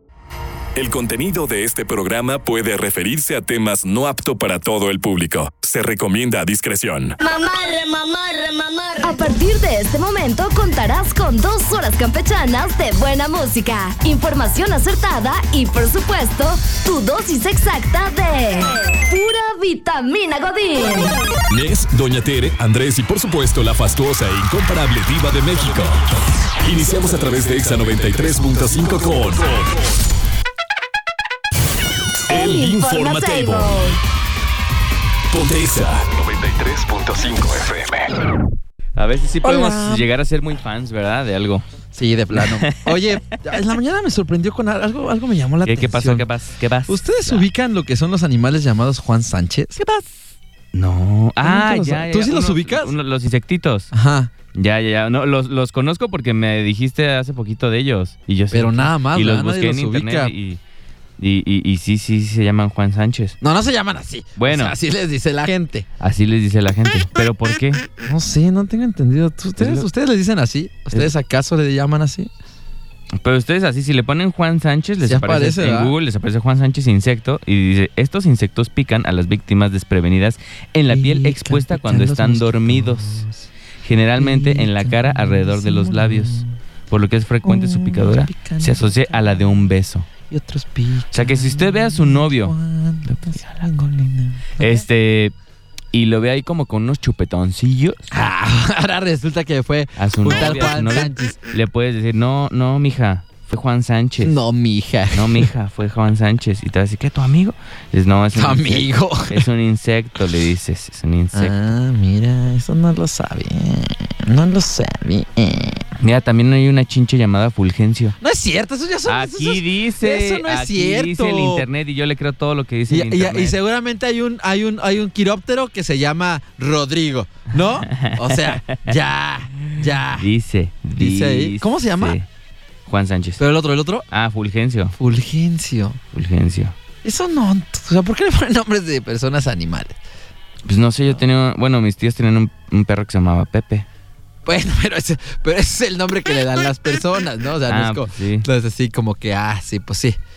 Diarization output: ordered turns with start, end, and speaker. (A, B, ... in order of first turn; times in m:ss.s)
0:00.8-0:07.2 A
0:07.2-0:09.3 B
0:09.0-0:21.2 C
0:21.5-0:29.8 A
0:32.3-0:33.9 A
0:32.3-0:34.0 C
0:35.3-0:38.1 A
0:39.0-0:41.7 D
0:39.4-0:40.1 E
0:41.9-0:46.3 E
0:42.3-0:43.6 D
0:45.6-0:47.5 D
0:46.9-0:50.1 E
0:50.7-0:53.9 D
0:51.4-0:53.0 E
0:53.9-0:54.3 E
0:54.5-1:00.6 D
0:58.5-1:00.3 E
1:01.2-1:03.4 D
1:03.4-1:05.9 E
1:04.4-1:04.8 D
1:06.0-1:07.9 D
1:08.0-1:12.3 E
1:09.6-1:09.9 D
1:13.2-1:23.2 D
1:15.0-1:15.9 E
1:20.9-1:23.5 E
1:23.8-1:30.1 D
1:24.2-1:26.6 E
1:27.4-1:29.7 E
1:30.3-1:34.8 E
1:31.1-1:32.5 D
1:34.6-1:35.4 D
1:35.9-1:38.1 D
1:38.1-1:41.4 E
1:40.0-1:44.4 D
1:44.2-1:45.5 E
1:45.1-1:51.5 D
1:48.3-1:49.5 E
1:51.3-1:55.8 E
1:56.0-1:58.2 D
1:58.2-2:01.7 E
1:59.1-2:03.6 D
2:02.9-2:10.3 E
2:07.9-2:09.0 D
2:09.8-2:12.3 D
2:11.0-2:12.2 E
2:12.9-2:13.4 D
2:13.4-2:14.1 E
2:14.1-2:15.0 D
2:15.0-2:16.0 E
2:16.1-2:16.8 D
2:17.0-2:20.0 E
2:20.6-2:23.9 D
2:24.4-2:30.2 E
2:27.7-2:28.5 D